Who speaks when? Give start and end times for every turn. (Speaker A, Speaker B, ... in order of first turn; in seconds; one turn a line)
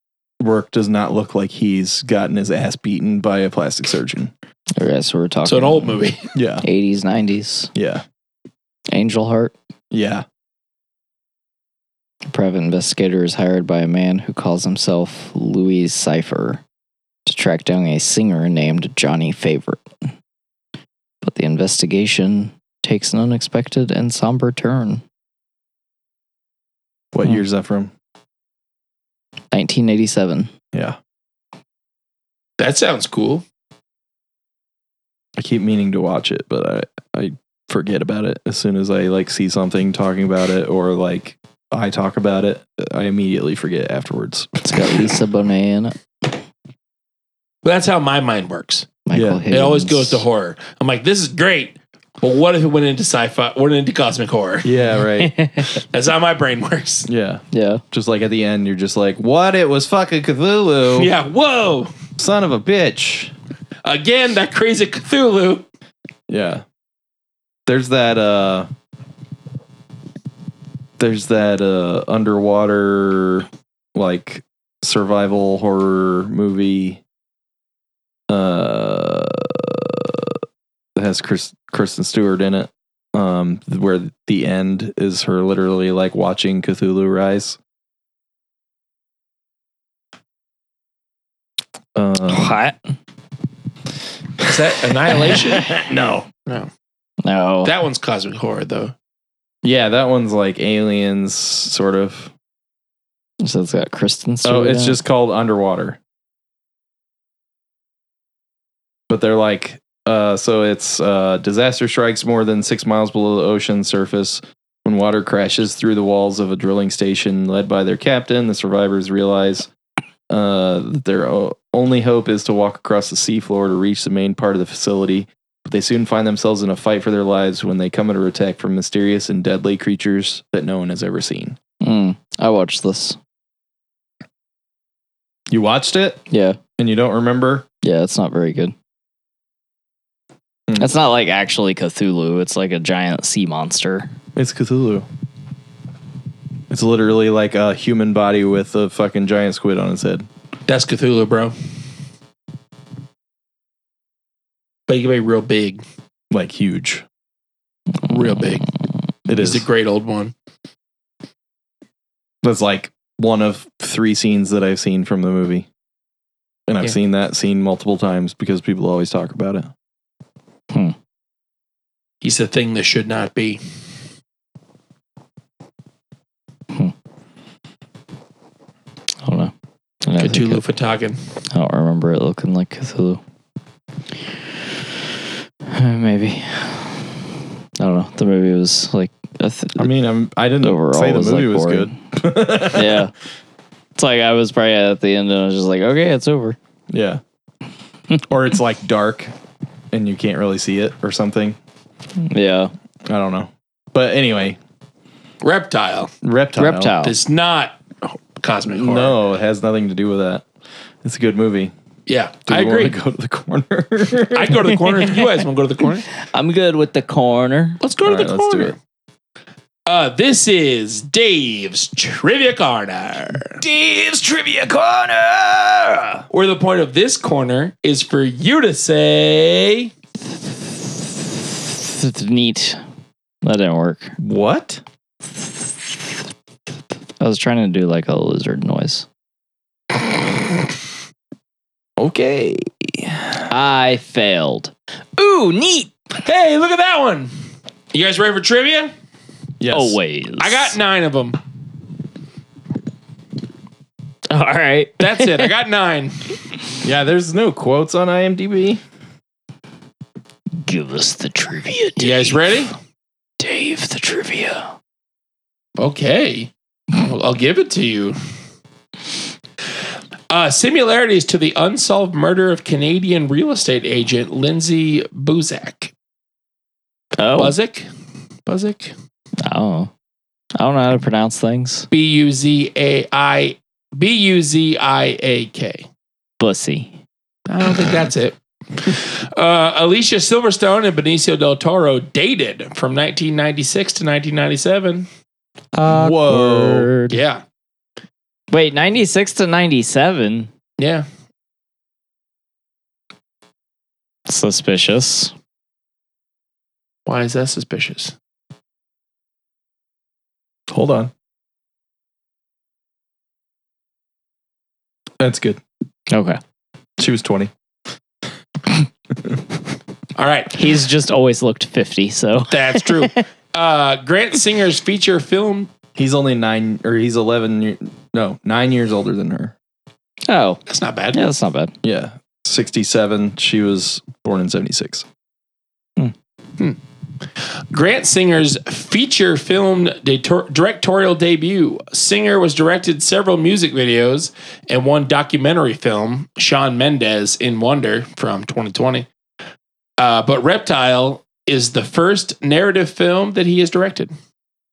Speaker A: 0.4-4.3
Speaker B: 4.8-6.0
Speaker C: 5.4-6.3
Speaker A: 6.3-6.6
Speaker B: 6.6-7.7
Speaker A: 7.7-8.0
Speaker B: 8.9-9.5
Speaker A: 9.9-10.2
Speaker B: 12.3-16.6
Speaker B: 17.2-19.8
Speaker B: 21.2-25.0
Speaker A: 27.1-27.9
Speaker B: 29.5-30.5
Speaker A: 30.7-31.0
Speaker C: 32.6-33.4
Speaker A: 35.4-44.9
Speaker B: 44.6-46.0
Speaker C: 47.6-49.0
Speaker B: 49.0-50.2
Speaker A: 49.1-49.4
Speaker C: 49.5-54.7
Speaker A: 54.6-55.3
Speaker B: 55.2-55.8
Speaker C: 55.6-57.1
Speaker A: 57.1-61.1
Speaker B: 57.5-57.8
Speaker C: 60.9-61.9
Speaker A: 62.2-63.3
Speaker C: 63.8-65.7
Speaker A: 66.3-66.6
Speaker A: 67.7-68.7
Speaker A: 71.0-77.0
Speaker A: 78.3-80.4
Speaker A: 80.9-87.6
Speaker A: 91.9-92.6
Speaker B: 92.3-92.8
Speaker C: 94.4-95.8
Speaker A: 95.1-96.3
Speaker B: 97.2-97.7
Speaker C: 97.6-98.9
Speaker A: 99.6-102.3
Speaker B: 103.4-105.0
Speaker A: 104.4-106.0
Speaker A: 109.1-119.7
Speaker A: 120.3-131.6
Speaker B: 131.8-133.2
Speaker A: 135.5-136.2
Speaker B: 136.3-136.6
Speaker A: 136.8-137.7
Speaker B: 137.8-138.7
Speaker B: 140.8-144.1
Speaker A: 144.3-145.1
Speaker A: 146.7-150.3
Speaker C: 150.7-151.5
Speaker C: 154.9-155.8
Speaker A: 156.3-157.0
Speaker C: 158.0-158.7
Speaker A: 159.3-159.7
Speaker C: 159.3-160.3
Speaker A: 162.4-165.7
Speaker A: 166.7-169.7
Speaker C: 172.2-173.6
Speaker B: 179.2-179.5
Speaker B: 180.0-180.6
Speaker C: 180.2-181.2
Speaker B: 181.5-183.2
Speaker B: 185.7-187.2
Speaker B: 187.8-189.9
Speaker A: 189.8-193.1
Speaker B: 190.6-191.9
Speaker B: 192.7-193.1
Speaker B: 193.9-196.6
Speaker A: 196.9-197.2
Speaker A: 198.3-199.3
Speaker A: 199.9-201.6
Speaker B: 202.2-202.7
Speaker A: 203.1-204.6
Speaker C: 205.4-206.1
Speaker A: 206.2-206.9
Speaker B: 206.6-207.1
Speaker C: 207.0-209.2
Speaker A: 208.7-210.4
Speaker A: 211.0-211.7
Speaker C: 212.1-212.9
Speaker A: 212.5-214.7
Speaker C: 214.3-216.1
Speaker B: 214.9-215.2
Speaker B: 216.2-217.8
Speaker C: 217.8-218.8
Speaker A: 218.0-218.7
Speaker C: 219.8-223.6
Speaker A: 223.6-226.2
Speaker C: 226.3-229.9
Speaker B: 230.8-232.8
Speaker B: 233.4-234.2
Speaker A: 234.2-234.8
Speaker B: 235.3-236.2
Speaker B: 237.2-239.1
Speaker A: 242.0-243.4
Speaker B: 243.5-245.9
Speaker C: 246.2-247.3
Speaker C: 247.9-248.9
Speaker A: 249.6-250.0
Speaker B: 249.7-250.7
Speaker C: 250.4-251.4
Speaker B: 254.3-255.5
Speaker C: 255.0-256.2
Speaker A: 256.8-258.8
Speaker B: 260.6-262.6
Speaker C: 262.0-262.7
Speaker B: 263.4-264.7
Speaker C: 265.8-268.2
Speaker C: 270.3-275.9
Speaker B: 277.2-277.6
Speaker C: 277.4-277.9
Speaker C: 278.4-278.9
Speaker B: 279.4-279.9
Speaker B: 280.6-281.9
Speaker C: 281.9-285.9
Speaker B: 286.4-287.0
Speaker C: 287.5-295.1
Speaker B: 295.7-297.2
Speaker A: 295.9-296.9
Speaker C: 297.1-297.4
Speaker B: 298.5-300.5
Speaker C: 300.8-301.0
Speaker B: 304.3-305.3
Speaker C: 307.1-308.1
Speaker A: 310.7-311.1
Speaker A: 315.2-315.6
Speaker B: 316.1-316.4
Speaker A: 317.0-317.5
Speaker C: 320.1-320.6
Speaker B: 320.5-323.2
Speaker C: 322.5-325.7
Speaker A: 325.9-329.5
Speaker B: 330.3-330.6
Speaker C: 330.6-331.2
Speaker B: 331.1-331.7
Speaker A: 331.8-335.1
Speaker C: 337.7-349.1
Speaker C: 350.0-354.1